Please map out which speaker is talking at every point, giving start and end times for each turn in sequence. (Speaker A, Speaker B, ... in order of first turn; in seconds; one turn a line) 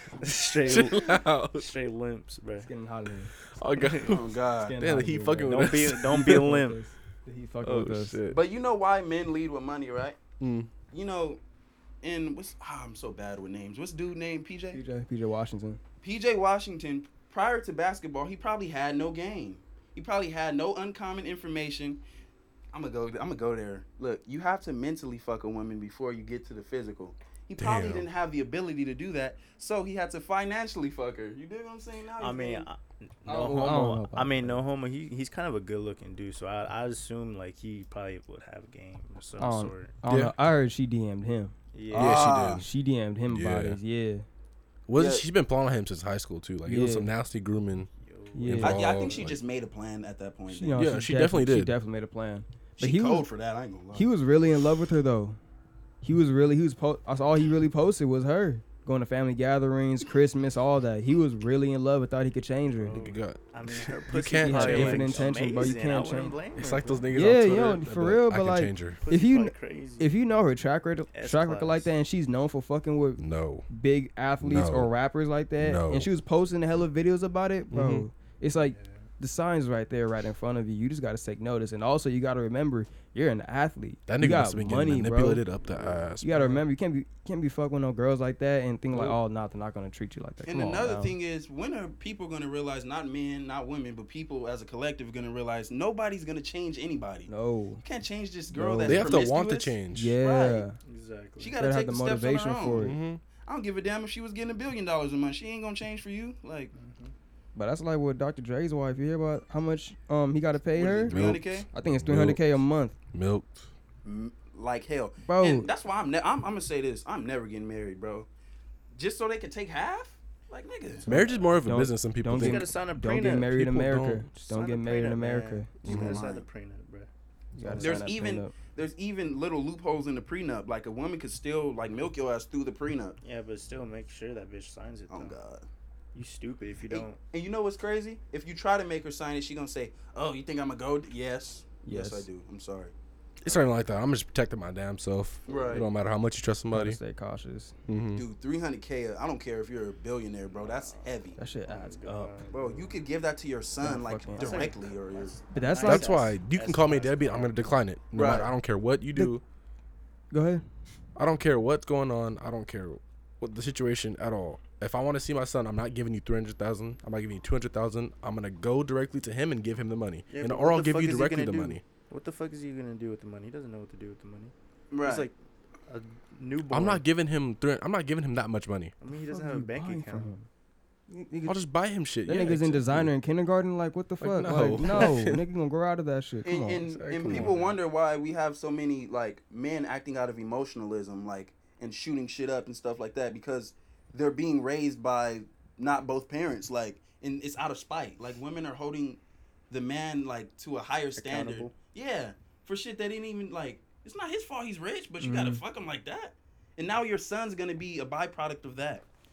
Speaker A: 0.2-2.7
Speaker B: 0.7-1.7
Speaker C: 2.6-3.3
Speaker B: 3.5-6.5
Speaker A: 3.8-4.1
Speaker D: 4.0-4.8
Speaker C: 4.6-8.2
Speaker A: 5.5-6.8
Speaker B: 7.6-8.4
Speaker D: 8.3-10.2
Speaker B: 10.4-10.7
Speaker D: 10.9-11.4
Speaker D: 12.0-14.8
Speaker C: 14.7-15.8
Speaker D: 16.0-22.0
Speaker D: 22.7-32.7
Speaker B: 27.6-28.1
Speaker A: 32.2-39.9
Speaker C: 33.3-34.6
Speaker C: 39.4-41.5
Speaker B: 40.1-40.3
Speaker A: 41.7-42.3
Speaker B: 41.9-42.7
Speaker D: 41.9-42.7
Speaker C: 42.5-44.3
Speaker B: 43.3-43.8
Speaker B: 44.9-47.9
Speaker D: 45.0-45.2
Speaker C: 46.7-47.1
Speaker A: 48.0-49.2
Speaker C: 48.3-48.9
Speaker B: 48.4-49.4
Speaker D: 48.6-50.9
Speaker C: 50.5-53.3
Speaker B: 50.7-51.8
Speaker D: 52.8-54.1
Speaker C: 53.9-55.4
Speaker C: 56.0-63.1
Speaker A: 62.8-67.1
Speaker B: 62.9-65.3
Speaker C: 64.4-66.4
Speaker B: 66.6-69.0
Speaker C: 67.1-85.5
Speaker A: 69.0-70.1
Speaker A: 71.1-71.9
Speaker B: 73.2-73.7
Speaker B: 74.4-74.9
Speaker B: 75.6-76.1
Speaker B: 77.7-78.1
Speaker B: 84.1-86.6
Speaker A: 85.6-86.1
Speaker C: 86.2-91.1
Speaker D: 90.5-97.3
Speaker C: 97.3-97.8
Speaker D: 97.8-100.7
Speaker C: 98.5-99.2
Speaker B: 98.8-100.2
Speaker C: 99.9-100.8
Speaker A: 100.8-101.6
Speaker D: 101.4-106.7
Speaker C: 101.6-103.0
Speaker B: 102.8-103.2
Speaker A: 106.7-107.1
Speaker C: 107.6-113.0
Speaker D: 110.7-111.7
Speaker B: 111.0-112.6
Speaker B: 113.1-113.7
Speaker D: 114.0-118.3
Speaker C: 115.2-115.7
Speaker D: 119.0-121.1
Speaker B: 121.0-122.7
Speaker C: 121.1-125.7
Speaker A: 121.1-121.5
Speaker A: 122.3-123.5
Speaker B: 123.5-124.3
Speaker A: 124.5-127.1
Speaker D: 125.8-126.5
Speaker B: 125.8-126.2
Speaker C: 127.6-128.5
Speaker A: 127.6-128.0
Speaker D: 127.8-133.2
Speaker A: 133.2-135.4
Speaker D: 135.1-135.7
Speaker A: 136.1-137.2
Speaker D: 136.9-142.9
Speaker C: 141.8-142.3
Speaker B: 143.4-147.0
Speaker D: 145.5-145.9
Speaker A: 145.5-145.8
Speaker C: 146.7-147.7
Speaker B: 147.9-148.2
Speaker D: 148.2-151.4
Speaker A: 150.6-153.0
Speaker C: 151.4-152.3
Speaker D: 152.5-155.4
Speaker C: 153.8-154.7
Speaker A: 154.3-157.7
Speaker C: 155.5-156.2
Speaker B: 155.8-159.4
Speaker D: 158.1-158.5
Speaker C: 160.3-160.6
Speaker B: 161.2-171.8
Speaker A: 170.3-175.3
Speaker D: 174.9-175.3
Speaker A: 175.9-177.0
Speaker B: 176.7-178.9
Speaker A: 179.0-180.3
Speaker C: 179.2-180.5
Speaker C: 181.1-181.6
Speaker B: 181.5-183.1
Speaker C: 182.3-186.8
Speaker B: 184.2-185.4
Speaker D: 186.4-209.1
Speaker B: 186.8-187.5
Speaker A: 187.2-187.8
Speaker A: 201.2-201.7
Speaker C: 205.2-205.6